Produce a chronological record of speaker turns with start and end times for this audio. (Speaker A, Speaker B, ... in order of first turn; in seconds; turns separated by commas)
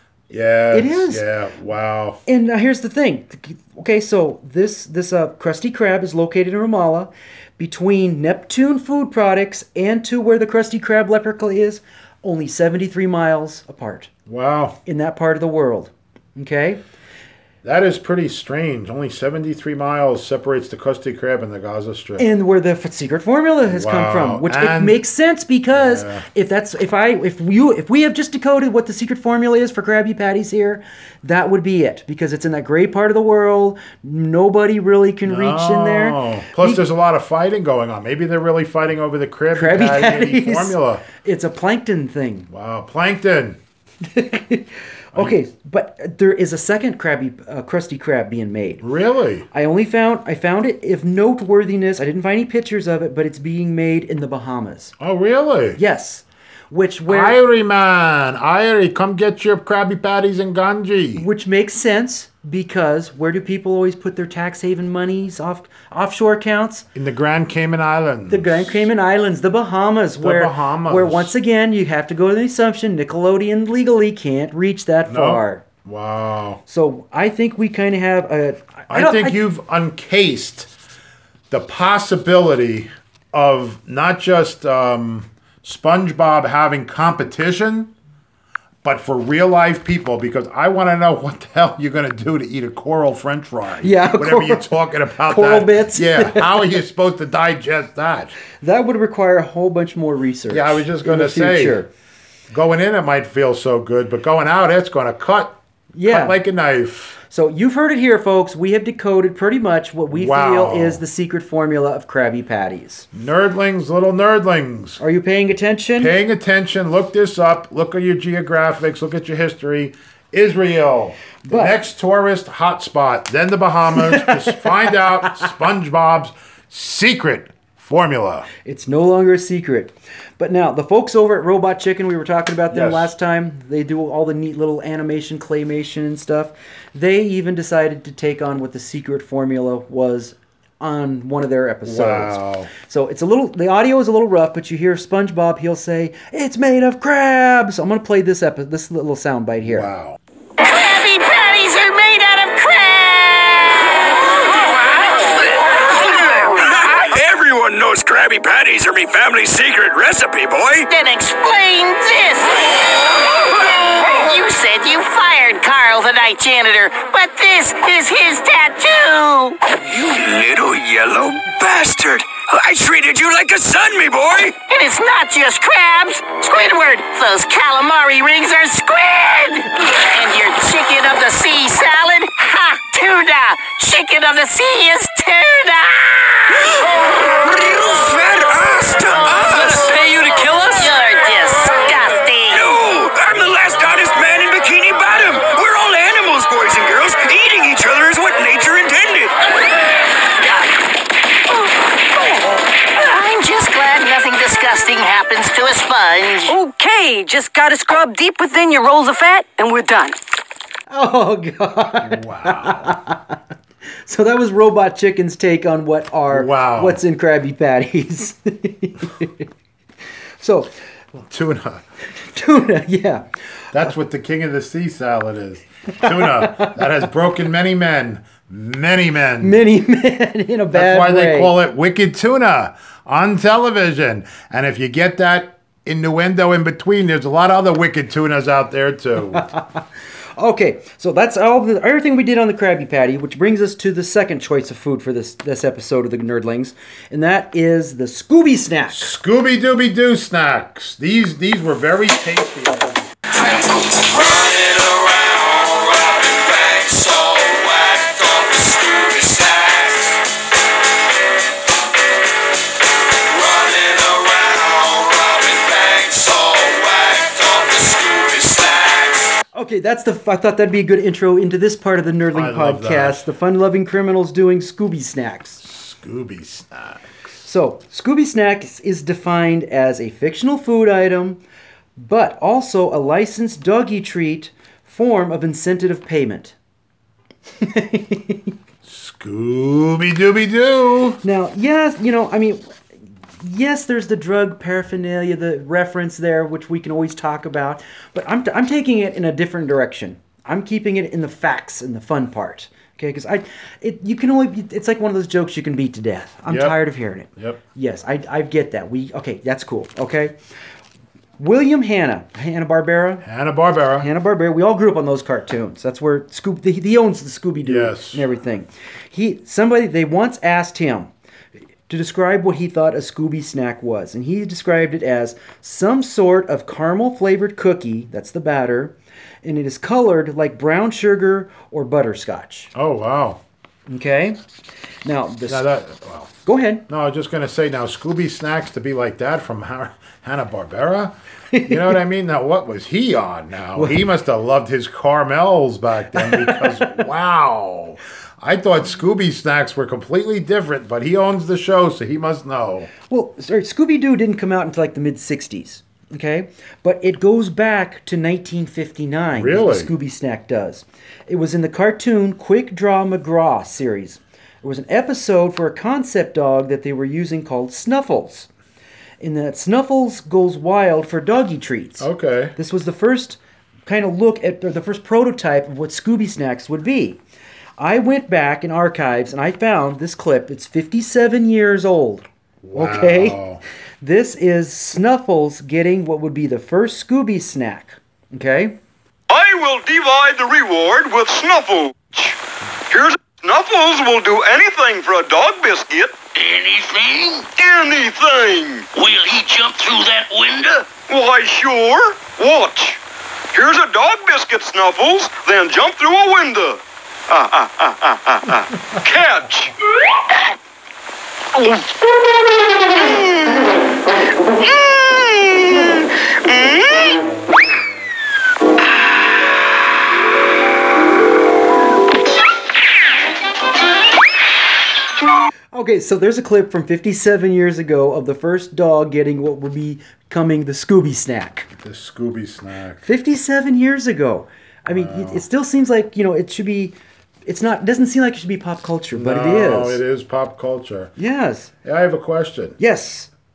Speaker A: 0.3-2.2, Speaker B: 0.7-1.2, Speaker B: 2.3-14.1, Speaker A: 14.3-14.8, Speaker B: 14.8-16.8, Speaker A: 17.6-22.3, Speaker B: 22.2-36.8, Speaker A: 23.6-25.0, Speaker A: 25.7-26.3, Speaker A: 35.2-41.0, Speaker B: 39.5-42.5, Speaker A: 42.5-43.6, Speaker B: 44.1-48.8, Speaker A: 45.1-45.4, Speaker A: 48.8-49.5, Speaker B: 49.5-55.0, Speaker A: 55.0-55.8, Speaker B: 55.8-57.4, Speaker A: 57.1-61.3, Speaker B: 61.1-66.9, Speaker A: 67.0-68.7, Speaker B: 68.3-75.6, Speaker A: 70.2-71.3, Speaker A: 75.1-76.6, Speaker B: 76.7-79.4, Speaker A: 78.9-80.7, Speaker A: 81.5-87.9, Speaker A: 88.8-98.3, Speaker B: 93.8-96.8, Speaker B: 98.6-101.9, Speaker A: 100.5-101.8, Speaker A: 102.5-107.2, Speaker B: 106.0-106.4, Speaker B: 107.3-113.1, Speaker A: 110.1-111.0, Speaker A: 113.1-115.0, Speaker B: 115.0-116.1, Speaker A: 116.0-128.5, Speaker B: 121.5-121.8, Speaker B: 124.0-124.5, Speaker B: 128.7-149.9, Speaker A: 132.7-133.1, Speaker A: 141.8-142.7, Speaker A: 149.6-150.2, Speaker C: 150.6-153.9, Speaker D: 155.0-155.7, Speaker C: 156.0-156.4, Speaker D: 156.4-160.9, Speaker C: 160.9-169.6, Speaker D: 169.9-174.6, Speaker C: 174.7-186.8, Speaker D: 186.7-190.8, Speaker C: 189.1-189.8, Speaker E: 189.4-190.9, Speaker C: 190.8-192.7, Speaker D: 192.5-199.3, Speaker C: 202.2-202.4, Speaker C: 202.9-206.6, Speaker E: 206.5-210.2, Speaker B: 210.9-213.4, Speaker A: 212.0-213.0, Speaker B: 214.1-219.5, Speaker A: 216.3-217.0, Speaker B: 220.4-220.7, Speaker A: 221.2-221.8, Speaker B: 222.2-223.3, Speaker A: 223.7-229.6, Speaker B: 226.0-226.8, Speaker B: 229.4-231.5, Speaker A: 230.7-239.5, Speaker B: 239.3-239.8, Speaker B: 240.4-249.1, Speaker A: 248.9-253.1, Speaker D: 253.4-260.2, Speaker D: 263.3-269.3, Speaker B: 269.5-275.6, Speaker A: 272.3-273.3, Speaker A: 275.6-277.1, Speaker B: 277.4-281.4, Speaker B: 282.0-286.6, Speaker B: 287.6-288.6, Speaker A: 288.8-291.2, Speaker B: 291.2-292.8, Speaker B: 293.4-310.4, Speaker A: 306.5-306.8, Speaker A: 307.3-307.6, Speaker B: 311.4-313.2, Speaker A: 313.2-314.1, Speaker B: 314.0-321.1, Speaker A: 317.6-318.2, Speaker B: 321.9-332.7, Speaker A: 332.7-333.4, Speaker B: 333.9-334.4, Speaker B: 335.1-335.7, Speaker A: 335.5-336.3, Speaker B: 336.4-336.8, Speaker A: 336.9-341.1, Speaker B: 341.5-342.0, Speaker A: 341.7-352.9, Speaker B: 343.8-344.0, Speaker B: 346.1-347.0, Speaker B: 353.1-368.5, Speaker A: 359.3-359.9, Speaker B: 369.2-377.2, Speaker A: 372.0-372.6, Speaker B: 377.8-383.4, Speaker A: 382.6-383.6, Speaker B: 384.0-388.8, Speaker F: 389.3-396.2, Speaker D: 396.4-397.5, Speaker F: 397.6-398.9, Speaker D: 398.9-400.9, Speaker F: 401.1-403.0, Speaker F: 403.5-409.7, Speaker F: 411.6-411.9, Speaker F: 412.9-413.8, Speaker F: 414.5-417.2, Speaker B: 425.7-431.7, Speaker A: 431.8-433.1, Speaker B: 433.0-436.9, Speaker A: 434.9-435.4, Speaker B: 437.5-440.0, Speaker A: 439.1-441.1, Speaker B: 441.2-441.7, Speaker A: 441.8-442.8, Speaker B: 442.8-443.3